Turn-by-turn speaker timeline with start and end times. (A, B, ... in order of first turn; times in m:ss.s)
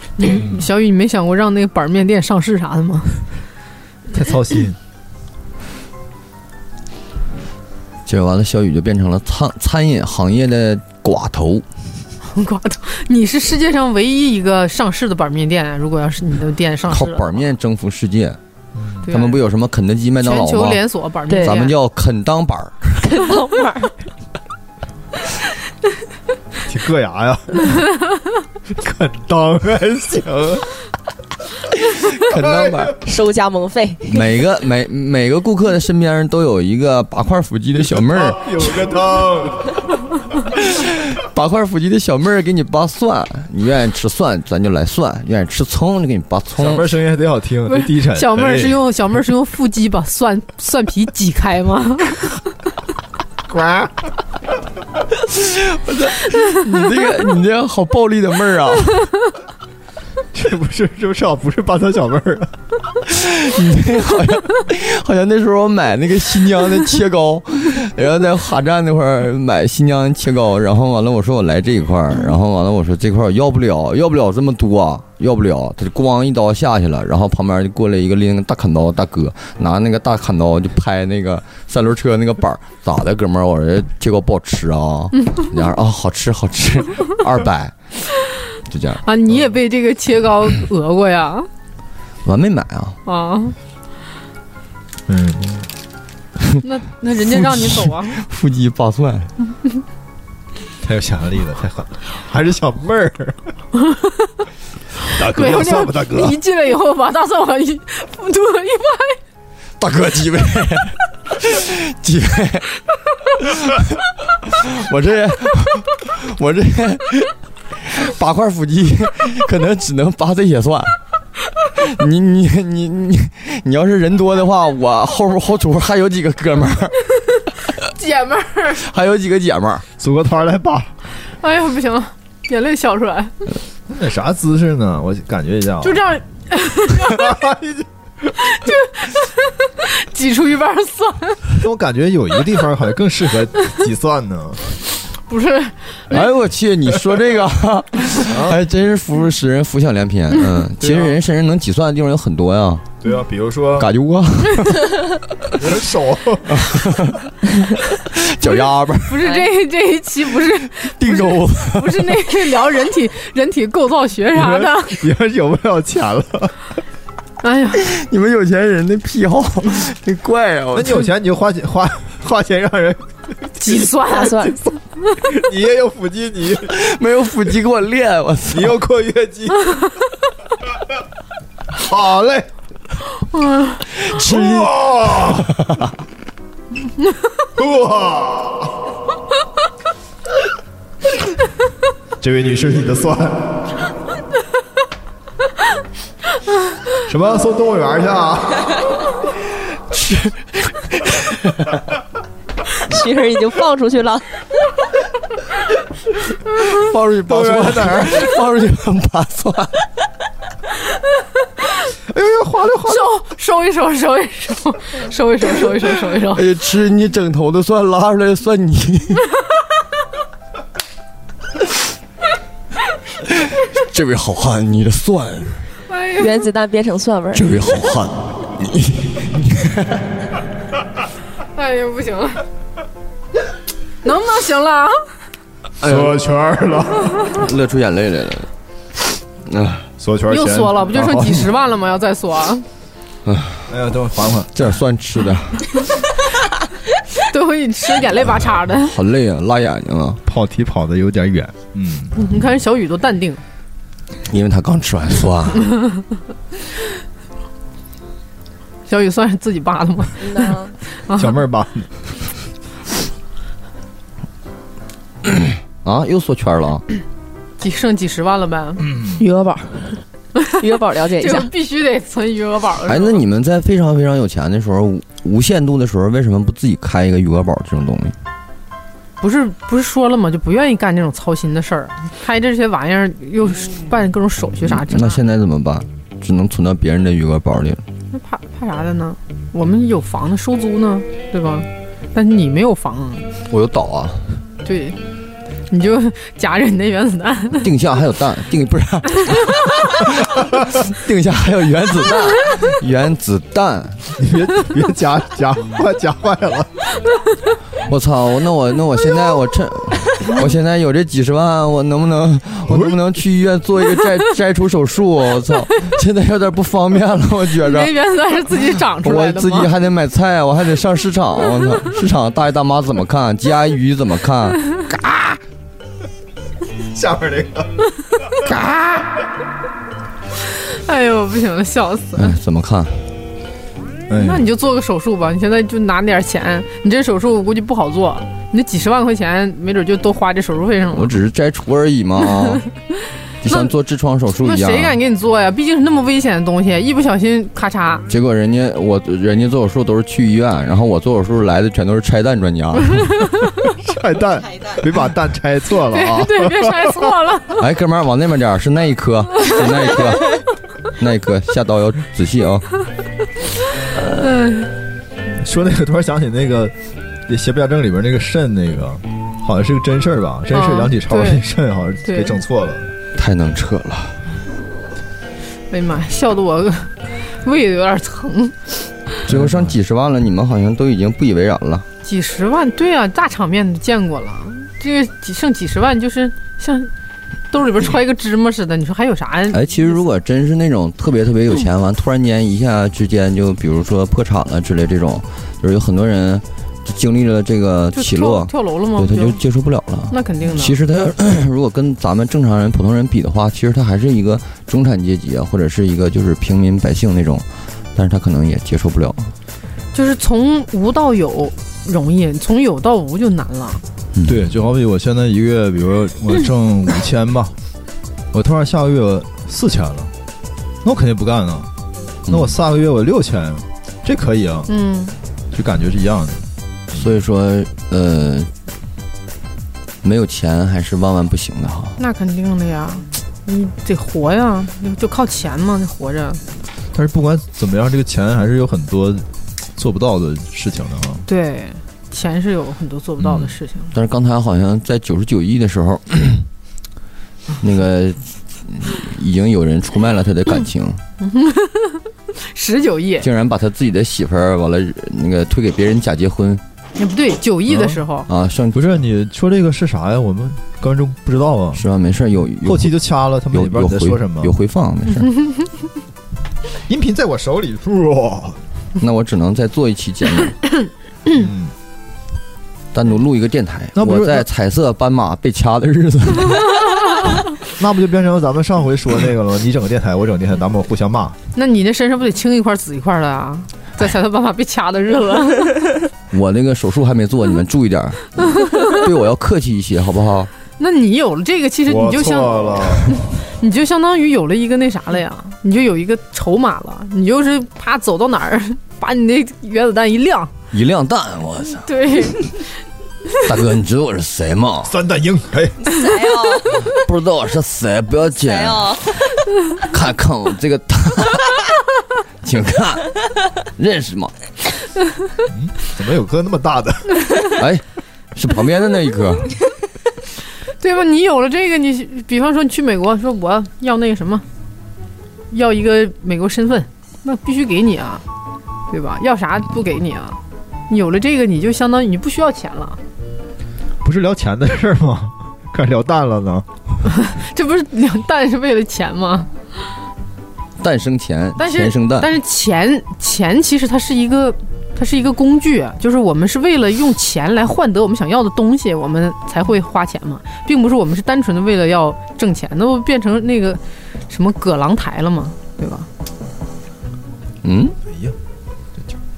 0:00.2-0:03.2 A
0:00.3-0:00.6 B
0:04.1-0:04.8 B
0:08.0-0:11.6 C
0:12.2-0:17.3 A
0:16.9-0:18.4 C
0:18.7-0:19.1 B
0:19.1-0:19.4 A
0:19.1-0:20.8 C
0:20.2-0:21.7 A
0:21.3-0:21.6 D
0:21.4-0:22.8 C
0:23.0-0:24.1 D
0:26.6-0:27.8 B
0:28.7-0:30.6 B
0:31.9-0:33.0 C
0:33.0-0:34.2 D
0:34.0-0:38.8 C
0:37.8-0:39.8 B
0:40.5-0:46.9 C
0:46.6-0:48.8 B
0:47.7-0:52.4 A
0:53.5-0:53.9 B
0:55.2-0:59.0 C
1:00.3-1:02.5 B
1:03.0-1:27.7 C
1:28.7-1:29.0 C
1:29.0-1:31.5 A
1:32.2-1:33.0 C
1:33.0-1:33.6 A
1:35.1-1:35.7 B
1:36.6-1:38.2 A
1:37.2-1:39.3 C
1:40.8-1:43.5 B
1:43.8-1:44.3 A
1:45.1-1:46.4 B
1:45.2-1:49.2 A
1:49.8-1:52.7 C
1:53.3-2:01.0 C
2:01.7-2:07.0 C
2:07.9-2:08.8 A
2:08.7-2:09.8 C
2:10.0-2:10.9 B
2:11.4-2:13.3 A
2:13.9-2:16.0 B
2:15.8-2:17.3 A
2:17.0-2:17.9 B
2:18.4-2:21.5 A
2:21.6-2:24.6 B
2:25.3-2:26.2 A
2:26.1-2:32.8 C
2:28.3-2:28.6 B
2:30.8-2:31.2 B
2:33.0-2:33.9 B
2:33.8-2:35.1 C
2:35.5-2:36.7 B
2:36.5-2:37.4 C
2:37.9-2:39.3 C
2:38.4-2:45.0 A
2:40.8-2:42.0 C
2:44.3-2:46.5 B
2:47.4-2:47.9 A
2:47.8-2:51.1 C
2:50.7-2:53.1 B
2:53.6-2:54.5 A
2:54.0-2:54.6 D
2:55.2-2:56.7 B
2:56.6-2:58.8 C
2:58.5-2:59.8 B
3:01.7-3:02.5 B
3:03.3-3:03.8 A
3:04.0-3:05.7 C
3:04.1-3:05.6 B
3:07.6-3:08.7 B
3:12.2-3:13.7 B
3:17.0-3:18.9 B
3:19.9-3:21.8 C
3:22.8-3:24.2 D
3:26.6-3:29.8 C
3:27.2-3:28.3 B
3:32.1-3:33.1 B
3:32.9-3:36.4 A
3:36.3-3:39.3 C
3:43.4-3:45.6 C
3:45.9-3:46.4 A
3:46.2-3:47.5 D
3:47.3-3:50.0 C
3:51.5-3:52.4 A
3:54.0-3:55.0 A
3:55.8-3:56.2 C
3:55.8-3:57.2 B
3:57.3-3:58.5 C
3:59.4-3:59.8 C
4:00.0-4:01.5 B
4:00.3-4:02.6 A
4:03.2-4:03.6 C
4:03.7-4:04.5 B
4:04.5-4:05.8 C
4:07.2-4:08.9 A
4:08.8-4:10.2 C
4:10.2-4:12.2 B
4:12.1-4:13.4 A
4:14.3-4:15.8 C
4:18.9-4:21.3 A
4:20.2-4:20.7 D
4:21.1-4:21.9 B
4:25.8-4:26.8 C
4:27.6-4:28.9 A
4:29.2-4:30.0 D
4:30.6-4:31.5 D
4:31.2-4:33.2 A
4:32.9-4:38.2 C
4:39.2-4:45.2 A
4:44.6-4:47.8 C
4:48.1-4:53.3 A
4:53.5-4:54.2 C
4:54.6-4:55.0 A
4:55.7-4:57.7 A
4:57.6-5:04.0 C
5:04.2-5:06.7 B
5:07.9-5:17.9 C
5:12.7-5:13.0 B
5:17.6-5:19.7 A
5:19.0-5:25.4 C
5:26.9-5:27.8 B
5:28.4-5:29.1 C
5:30.5-5:32.4 A
5:32.2-5:33.0 C
5:34.1-5:34.5 B
5:34.2-5:41.1 A
5:40.9-5:42.6 C
5:43.4-5:45.0 C
5:43.5-5:43.7 A
5:44.4-5:48.0 A
5:48.1-5:53.2 C
5:53.8-5:57.1 B
5:55.9-5:57.6 A
5:57.6-6:00.4 C
6:01.0-6:02.7 C
6:04.1-6:04.7 A
6:05.4-6:06.7 B
6:07.3-6:12.9 B
6:10.5-6:11.4 A
6:12.0-6:12.3 A
6:13.1-6:14.2 C
6:15.7-6:18.7 A
6:19.2-6:21.8 C
6:19.3-6:19.7 B
6:22.0-6:26.9 A
6:27.5-6:30.0 A
6:29.5-6:49.3 C
6:37.9-6:39.4 A
6:40.1-6:40.8 A
6:49.9-6:53.8 A
6:54.1-6:54.5 C
6:54.2-6:57.5 B
6:58.3-7:00.1 B
7:00.8-7:01.7 B
7:02.3-7:02.6 C
7:02.3-7:04.7 B
7:04.7-7:05.1 A
7:05.5-7:07.1 B
7:06.9-7:08.5 C
7:10.0-7:12.0 C
7:12.0-7:16.4 A
7:16.9-7:19.2 B
7:19.8-7:21.2 B
7:21.3-7:23.9 A
7:23.9-7:26.5 C
7:27.6-7:31.0 C
7:31.2-7:33.3 A
7:33.2-7:36.6 C
7:37.0-7:38.3 A
7:37.7-7:38.0 B
7:38.3-7:39.0 C
7:38.7-7:41.8 B
7:41.7-7:45.3 C
7:42.6-7:44.5 B
7:46.9-7:48.6 B
7:49.0-7:50.6 C
7:51.3-7:51.7 B
7:52.9-7:57.2 C
7:53.9-7:54.5 B
7:57.8-8:01.4 B
8:01.5-8:05.9 A
8:06.3-8:10.5 C
8:08.6-8:09.0 A
8:10.8-8:12.8 A
8:11.9-8:13.2 B
8:13.6-8:20.5 A
8:20.7-8:22.3 C
8:21.8-8:22.5 A
8:23.4-8:24.9 C
8:24.8-8:25.8 B
8:25.8-8:26.9 D
8:26.8-8:29.1 C
8:28.4-8:29.2 D
8:29.8-8:31.6 C
8:32.4-8:33.2 C
8:33.8-8:34.3 C
8:35.5-8:37.3 B
8:37.6-8:39.5 C
8:40.8-8:44.4 A
8:45.5-8:48.2 A
8:48.9-8:53.0 A
8:54.0-8:56.7 B
8:57.1-8:59.5 A
9:00.8-9:02.3 C
9:01.6-9:16.1 A
9:17.6-9:18.0 C
9:18.0-9:18.4 B